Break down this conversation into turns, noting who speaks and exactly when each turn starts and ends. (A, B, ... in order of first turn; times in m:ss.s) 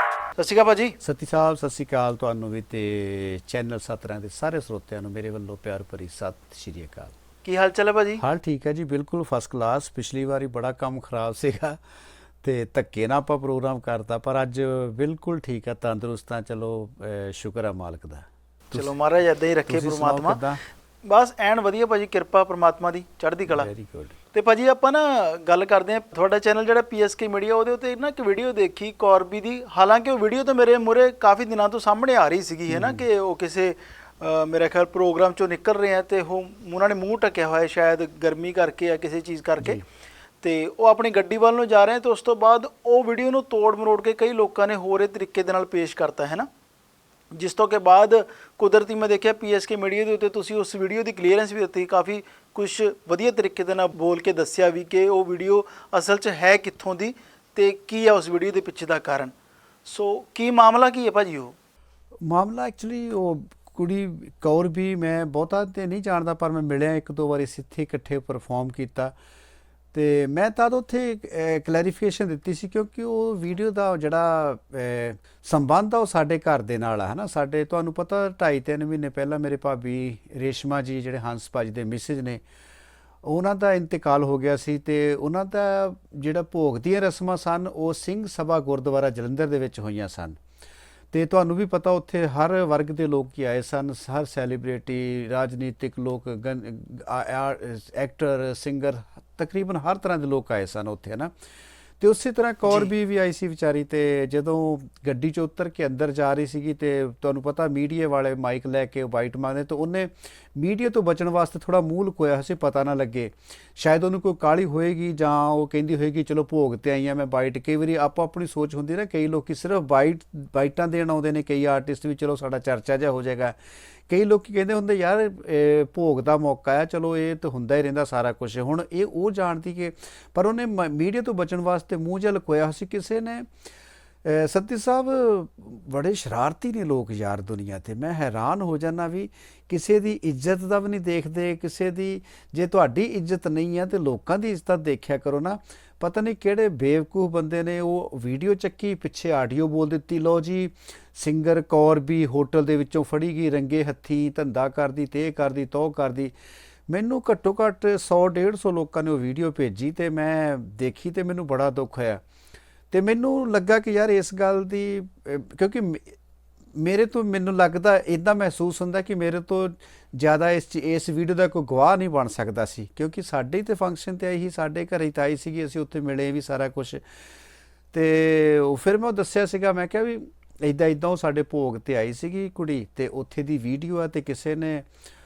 0:00.4-0:01.0 A
0:01.0-0:07.2 B
0:07.4-0:08.2 A
0:08.2-0:11.8 B
0:12.4-0:19.0 B
0:18.7-0:20.4 A
0:19.7-0:20.6 B
0:21.0-0:23.7 A
0:23.5-0:24.2 B
0:24.3-0:39.8 A
0:32.7-0:33.0 B
0:40.4-0:46.5 A
0:47.3-0:59.3 A
0:59.9-1:01.6 A
1:02.2-1:09.1 B
1:09.9-1:22.4 B
1:23.2-1:30.4 B
1:31.1-1:41.3 B
1:42.0-2:03.6 B
1:42.7-1:42.9 A
2:04.1-2:13.5 B
2:14.2-2:36.4 B
2:36.9-2:42.2 B
2:42.9-2:46.2 B
2:46.7-2:57.0 B
2:57.9-3:04.9 B